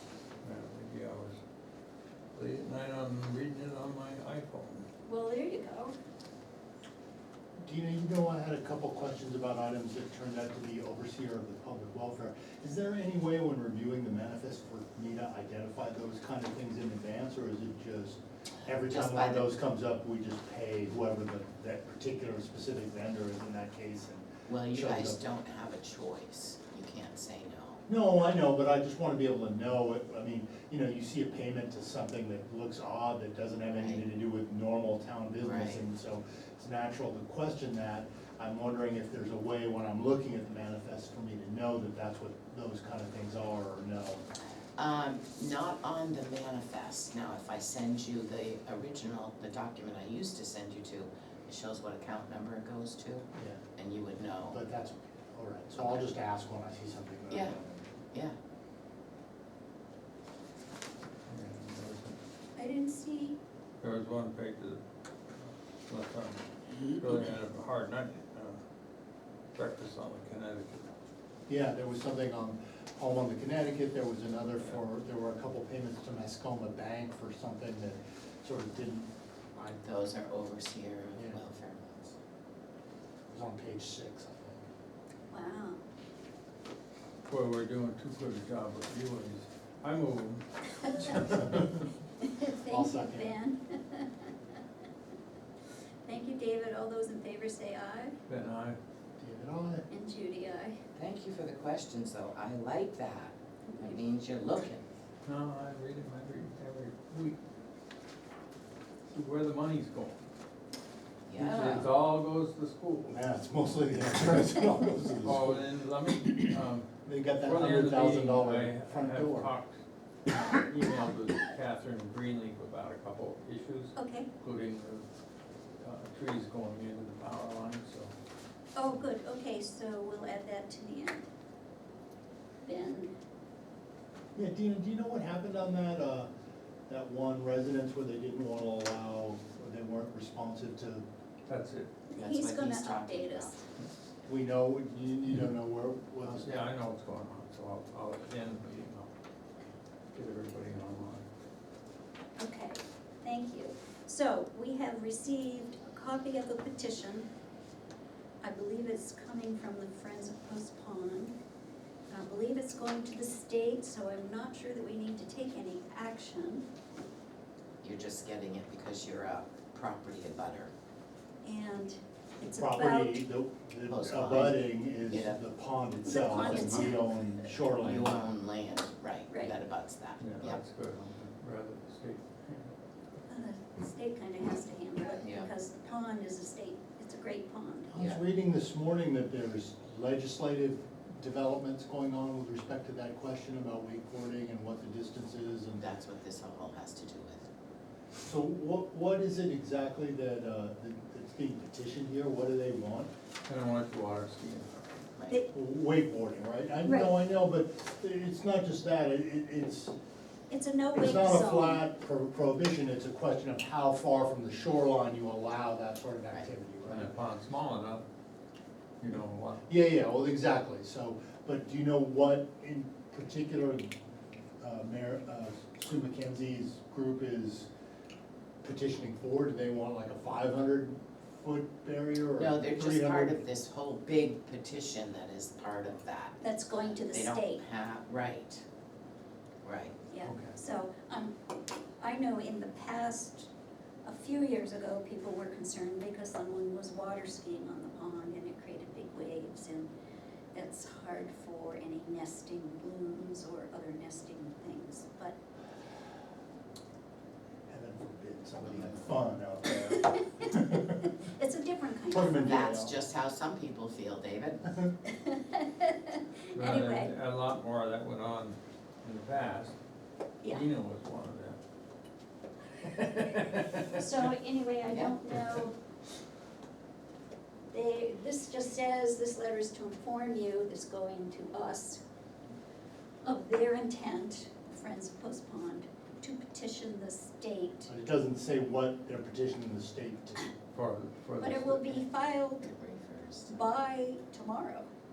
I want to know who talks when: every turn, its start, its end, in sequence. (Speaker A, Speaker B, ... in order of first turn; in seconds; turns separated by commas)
Speaker A: 0.4-1.4, Speaker A: 2.4-4.9, Speaker B: 5.0-6.0, Speaker C: 7.6-25.2, Speaker D: 18.9-19.4, Speaker D: 24.5-27.8, Speaker C: 27.9-44.2, Speaker D: 33.7-34.0, Speaker D: 35.4-35.8, Speaker D: 44.8-54.6, Speaker C: 53.3-53.6, Speaker C: 54.5-57.8, Speaker D: 57.3-57.6, Speaker A: 61.3-62.2, Speaker B: 62.5-63.4, Speaker A: 63.8-64.8, Speaker A: 65.4-68.6, Speaker A: 69.5-70.8, Speaker C: 71.5-79.1, Speaker D: 79.5-82.2, Speaker C: 83.3-84.7, Speaker B: 85.3-85.8, Speaker A: 87.3-91.6, Speaker C: 91.0-91.7, Speaker B: 92.2-94.3, Speaker C: 92.7-93.4, Speaker B: 96.0-98.1, Speaker A: 98.3-98.8, Speaker C: 99.2-99.8, Speaker B: 99.9-100.8, Speaker D: 101.0-104.9, Speaker B: 103.7-104.0, Speaker A: 105.2-107.4, Speaker A: 109.1-110.2, Speaker D: 111.3-111.9, Speaker A: 111.4-113.2, Speaker C: 113.1-115.7, Speaker A: 115.2-116.9, Speaker C: 116.2-119.5, Speaker A: 117.4-119.8, Speaker A: 120.3-125.0, Speaker B: 124.0-124.3, Speaker A: 125.8-128.1, Speaker B: 128.7-131.3, Speaker B: 132.6-133.1, Speaker C: 134.3-136.3, Speaker C: 136.9-141.0, Speaker A: 141.5-141.9, Speaker B: 142.1-143.6, Speaker D: 142.2-143.6, Speaker C: 144.2-146.7, Speaker A: 146.2-149.1, Speaker A: 150.1-151.3, Speaker B: 152.4-157.3, Speaker B: 158.4-161.3, Speaker B: 162.1-166.6, Speaker D: 167.8-170.7, Speaker B: 171.4-173.2, Speaker C: 172.6-178.2, Speaker D: 173.9-175.4, Speaker B: 176.1-177.1, Speaker D: 176.3-176.9, Speaker D: 177.8-180.6, Speaker B: 179.3-179.5, Speaker A: 180.2-182.7, Speaker B: 183.3-187.9, Speaker D: 185.2-185.5, Speaker C: 187.9-195.8, Speaker D: 187.9-188.2, Speaker D: 195.8-197.4, Speaker C: 198.2-203.1, Speaker A: 203.5-204.9, Speaker C: 205.5-209.9, Speaker B: 206.8-207.1, Speaker B: 210.5-211.8, Speaker C: 210.9-217.1, Speaker A: 216.8-218.0, Speaker A: 219.0-219.6, Speaker C: 219.7-223.9, Speaker C: 224.6-227.7, Speaker C: 228.6-233.4, Speaker D: 232.3-236.4, Speaker B: 236.4-237.6, Speaker D: 237.1-238.6, Speaker D: 239.6-240.0, Speaker B: 240.1-241.3, Speaker A: 240.2-240.5, Speaker B: 242.0-243.5, Speaker B: 244.0-249.9, Speaker B: 250.5-255.4, Speaker C: 257.7-261.1, Speaker D: 258.6-259.0, Speaker B: 259.9-260.5, Speaker B: 261.2-262.5, Speaker C: 262.1-262.9, Speaker D: 262.4-264.6, Speaker B: 265.1-267.1, Speaker A: 266.5-269.8, Speaker B: 270.4-270.7, Speaker A: 270.4-271.6, Speaker B: 273.8-275.8, Speaker D: 274.8-275.1, Speaker B: 277.7-282.0, Speaker B: 283.2-287.9, Speaker C: 287.9-290.5, Speaker A: 290.7-291.9, Speaker B: 291.4-292.7, Speaker D: 292.6-293.6, Speaker B: 293.5-294.9